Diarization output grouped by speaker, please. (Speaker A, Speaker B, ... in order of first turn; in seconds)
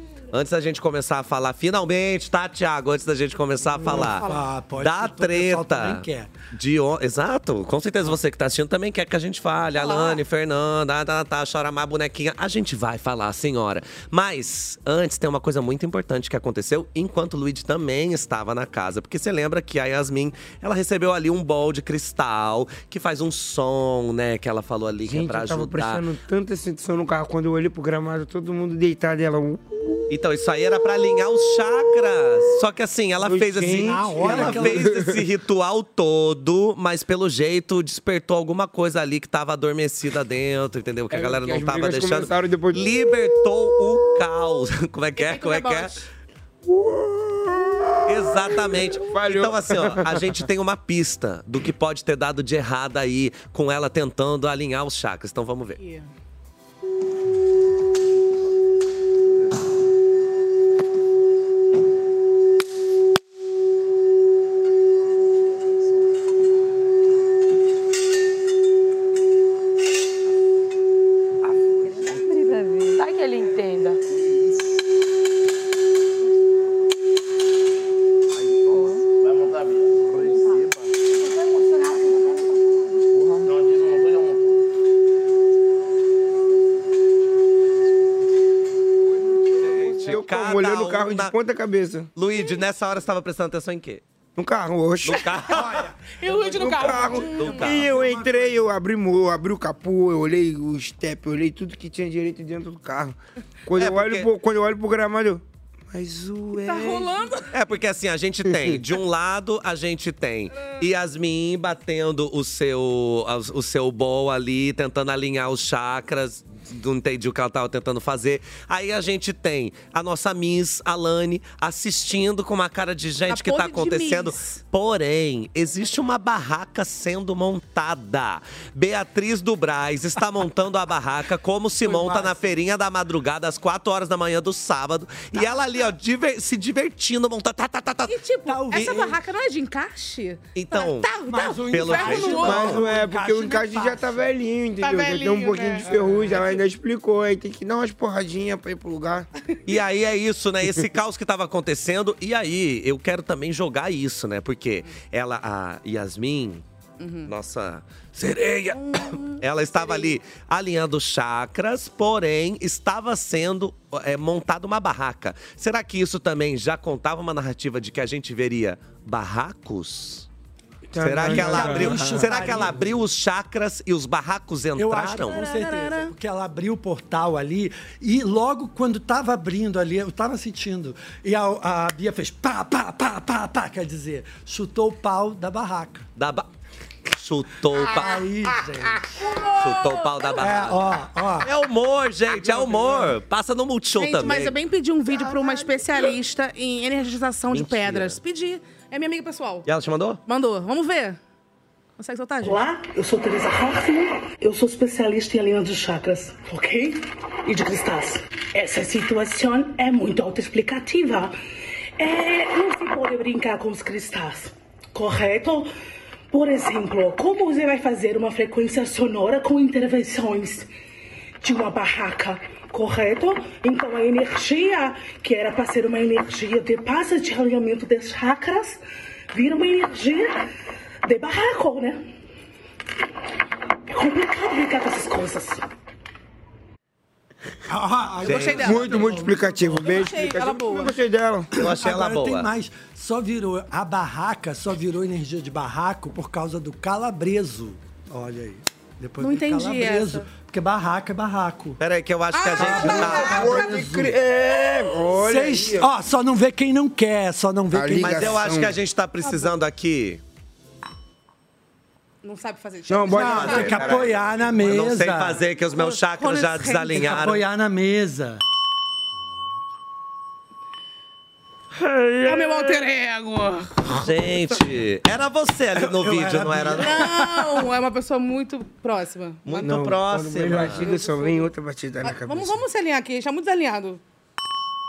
Speaker A: 0.3-4.3, 4.8-26.1, 30.1-46.0, 48.1-55.8, 89.7-91.3, 92.2-94.0, 95.0-95.8, 97.3-97.9, 103.8-104.3, 107.5-138.2, 138.7-139.0, 140.6-142.8, 149.7-156.6, 157.3-158.3, 159.4-170.3, 171.0-175.4, 186.2-186.5, 187.1-188.2, 189.6-190.8, 191.4-194.6, 197.5-198.2, 199.7-200.2, 238.2-238.7, 241.6-242.5, 251.8-253.5, 257.9-260.2, 263.2-267.4, 273.9-277.1, 279.4-280.9
Speaker B: 3.8-6.4, 33.8-34.9, 95.5-96.0, 96.5-98.6, 131.8-132.5, 138.5-139.2, 141.3-144.3, 145.8-146.4, 171.2-173.0, 174.8-186.1, 187.9-189.2, 190.4-191.5, 192.6-192.9, 237.7-239.9, 241.6-251.8, 252.6-254.2, 255.1-258.4, 263.1-265.4, 266.9-268.4, 275.8-277.5
Speaker C: 3.9-4.4, 9.8-10.2, 45.2-46.0, 55.8-56.1, 96.2-97.7, 106.6-107.5, 110.5-110.8, 123.3-124.6, 138.1-142.8, 144.8-146.6, 157.0-157.3, 158.7-160.2, 175.2-176.1, 189.2-190.4, 194.0-199.7, 200.3-201.2, 202.0-202.6, 238.2-239.1, 239.7-240.9, 249.2-250.3, 252.3-253.8, 259.2-259.5, 262.2-263.8, 265.8-267.2, 272.2-274.0, 276.8-279.7, 280.6-281.5, 282.0-284.0
Speaker D: 25.1-30.0, 33.2-35.2, 41.1-43.4, 46.7-50.4, 90.1-92.1, 94.4-95.6, 96.3-107.2, 108.5-108.8, 142.5-149.3, 170.9-172.4, 238.6-241.5, 252.9-255.9, 257.7-258.8, 262.9-264.1, 279.6-282.6
Speaker E: 202.4-211.3, 212.0-215.7, 216.3-220.7, 221.4-228.8, 229.3-230.4, 231.1-232.0, 233.9-235.6